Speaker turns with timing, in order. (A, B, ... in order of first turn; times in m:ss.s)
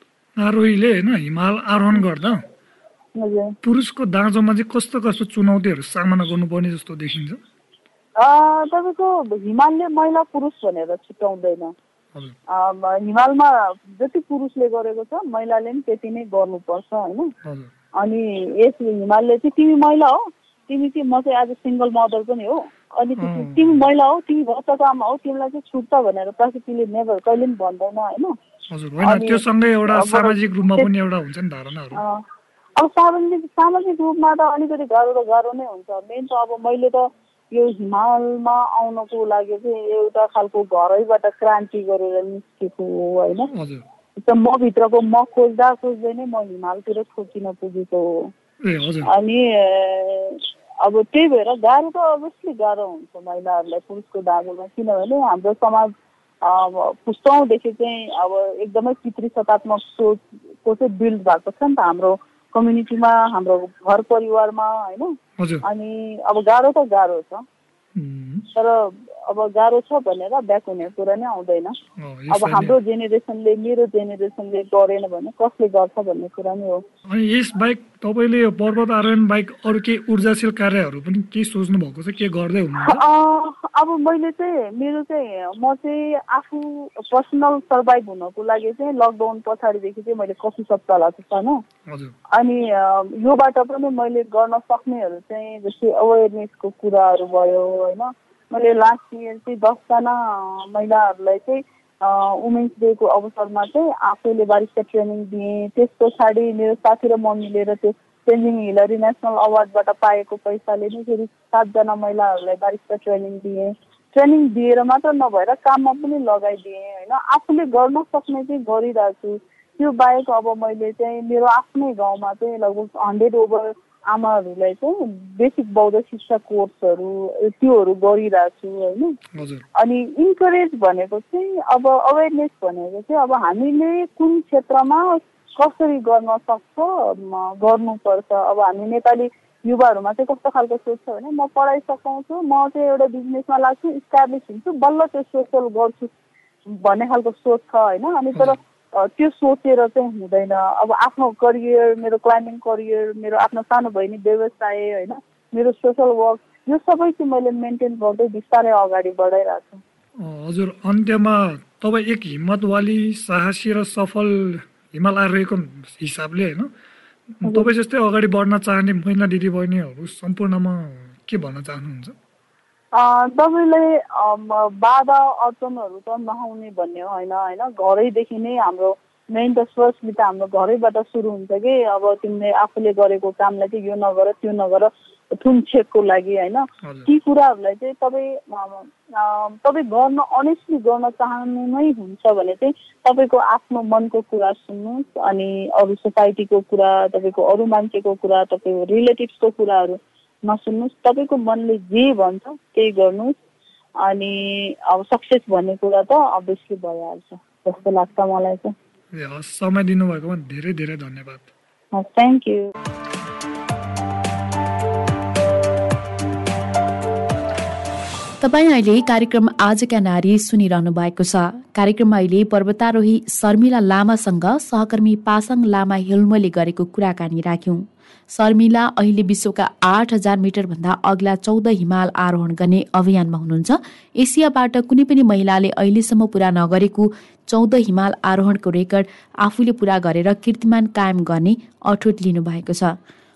0:00.4-0:02.4 A
0:03.2-0:03.5 B
0:03.6-0:07.4 A
0:08.2-0:11.7 B
0:12.5-0:17.3 B
0:17.4-0:17.7 A
0:18.0-0:28.3 B
0:23.2-0:23.8 A
0:28.7-0:32.0 A
0:29.0-0:30.9 B
0:31.9-0:32.2 B
0:32.8-0:43.5 B
0:43.5-0:43.8 A
0:44.2-0:48.3 B
0:48.6-0:49.1 A
0:49.0-0:55.9 B
0:56.4-1:07.4 B
1:05.4-1:05.6 A
1:08.0-1:08.5 A
1:08.5-1:11.7 B
1:12.0-1:12.8 A
1:12.3-1:16.8 B
1:17.1-1:23.0 A
1:22.8-1:31.6 B
1:31.9-1:32.1 A
1:32.3-2:09.1 B
2:09.4-2:09.6 A
2:09.8-2:26.1 B
2:26.8-2:39.8 B
2:40.2-2:46.7 A
2:47.4-2:52.1 A
2:52.9-3:23.3 B
3:24.0-3:28.7 B
3:29.1-3:31.5 A
3:31.9-3:32.6 B
3:38.4-4:03.0 C